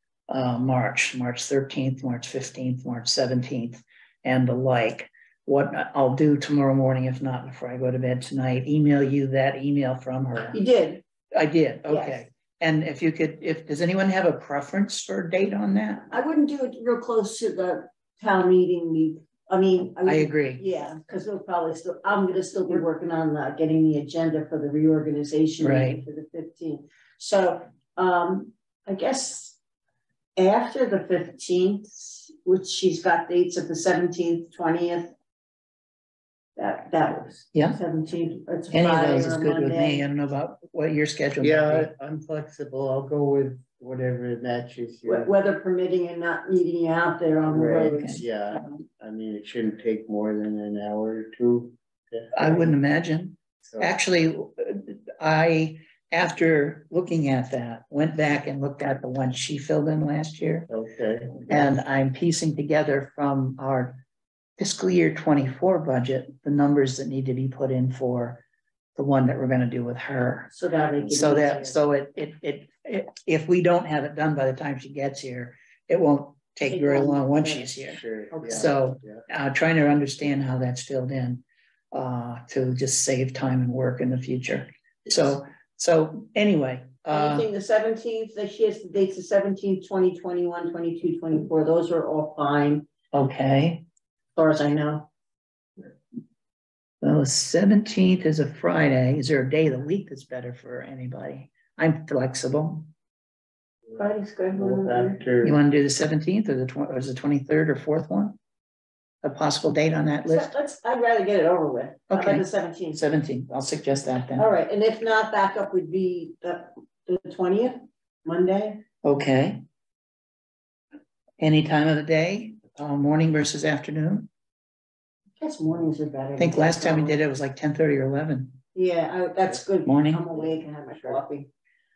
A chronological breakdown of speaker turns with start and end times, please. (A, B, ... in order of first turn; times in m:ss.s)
0:00.3-0:10.6 A
0:10.5-0:11.0 B
0:11.3-0:16.1 A
0:11.9-0:12.2 B
0:16.1-0:29.6 B
0:20.0-0:20.6 A
0:25.6-0:26.0 A
0:30.4-0:35.1 B
0:36.6-0:40.0 B
0:37.5-0:37.8 A
0:38.7-0:41.9 A
0:41.4-0:45.3 C
0:45.1-0:48.2 B
0:47.5-0:52.7 C
0:47.9-0:48.2 A
0:52.3-1:00.7 A
0:53.6-0:53.9 C
1:00.7-1:01.7 C
1:01.5-1:04.0 A
1:04.6-1:08.4 A
1:09.0-1:10.5 A
1:10.5-1:11.8 B
1:11.1-1:27.5 A
1:16.7-1:17.7 B
1:17.9-1:19.2 C
1:18.3-1:18.7 B
1:27.1-1:32.9 B
1:33.1-1:33.8 A
1:34.4-1:35.1 B
1:37.0-1:42.9 A
1:43.9-1:45.6 C
1:44.0-1:45.2 B
1:45.4-1:48.4 A
1:49.2-1:50.5 A
1:50.3-1:53.0 B
1:52.1-1:54.5 A
1:54.4-1:58.8 B
1:59.0-1:59.6 A
2:01.4-2:04.3 A
2:05.4-2:07.2 B
2:06.4-2:08.6 A
2:08.8-2:11.5 B
2:09.8-2:10.2 A
2:10.4-2:11.2 C